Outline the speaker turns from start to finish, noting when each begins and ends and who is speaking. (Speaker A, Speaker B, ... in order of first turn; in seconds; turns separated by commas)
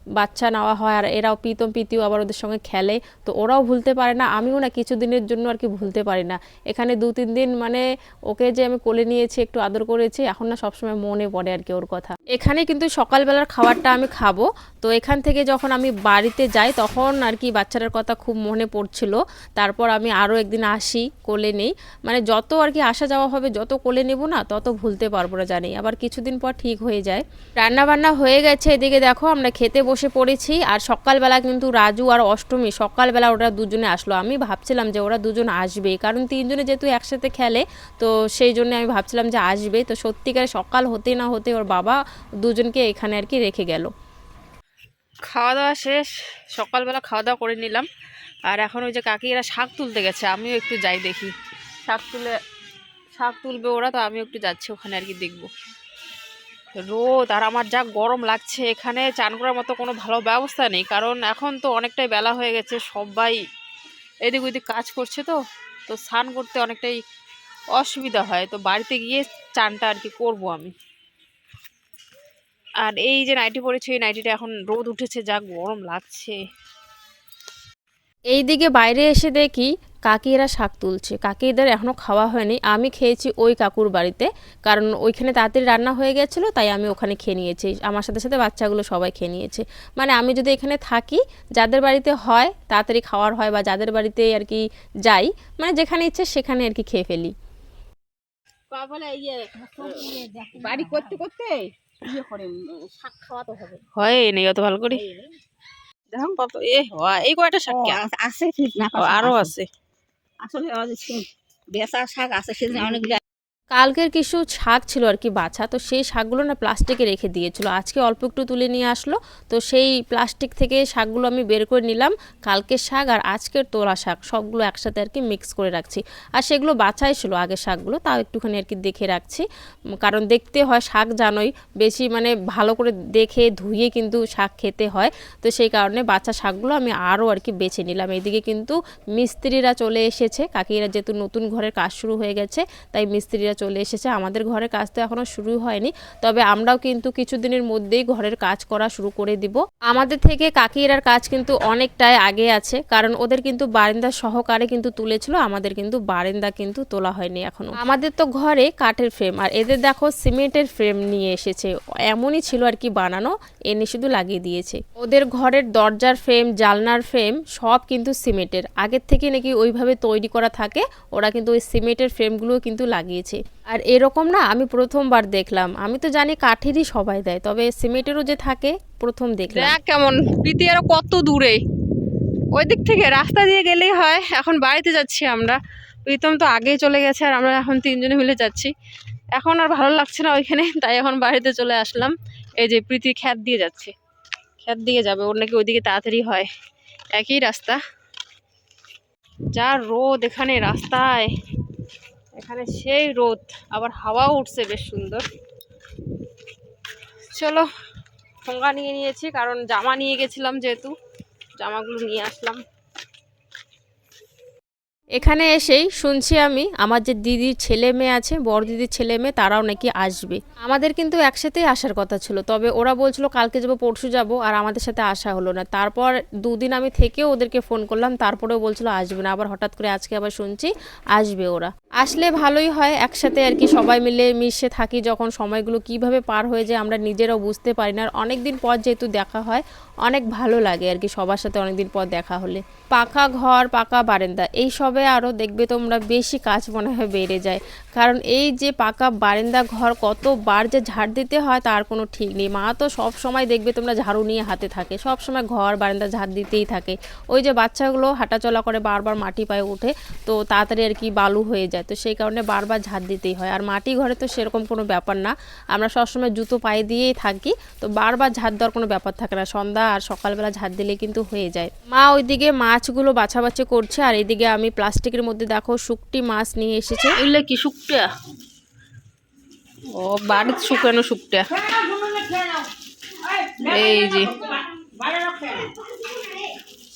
Speaker A: 0.2-43.9, Speaker B: 45.3-47.9, Speaker B: 48.5-51.3, Speaker B: 51.9-52.4, Speaker B: 53.1-55.5, Speaker B: 56.7-63.4, Speaker B: 64.2-67.0, Speaker B: 67.8-70.8, Speaker B: 72.8-76.4, Speaker A: 78.3-97.3, Speaker C: 98.7-103.8, Speaker B: 104.0-105.1, Speaker C: 104.9-105.2, Speaker B: 106.1-108.0, Speaker C: 107.7-109.5, Speaker B: 108.9-109.7, Speaker C: 110.4-113.2, Speaker A: 113.7-129.5, Speaker A: 130.0-179.7, Speaker B: 179.5-181.6, Speaker B: 182.5-188.7, Speaker B: 189.3-193.9, Speaker B: 194.6-196.5, Speaker B: 197.1-197.8, Speaker B: 199.5-201.3, Speaker B: 202.4-205.2, Speaker B: 207.3-207.7, Speaker B: 208.4-210.9, Speaker B: 211.6-212.6, Speaker A: 215.2-277.2, Speaker B: 277.1-278.1, Speaker B: 279.9-281.5, Speaker B: 283.6-284.4, Speaker C: 285.2-285.7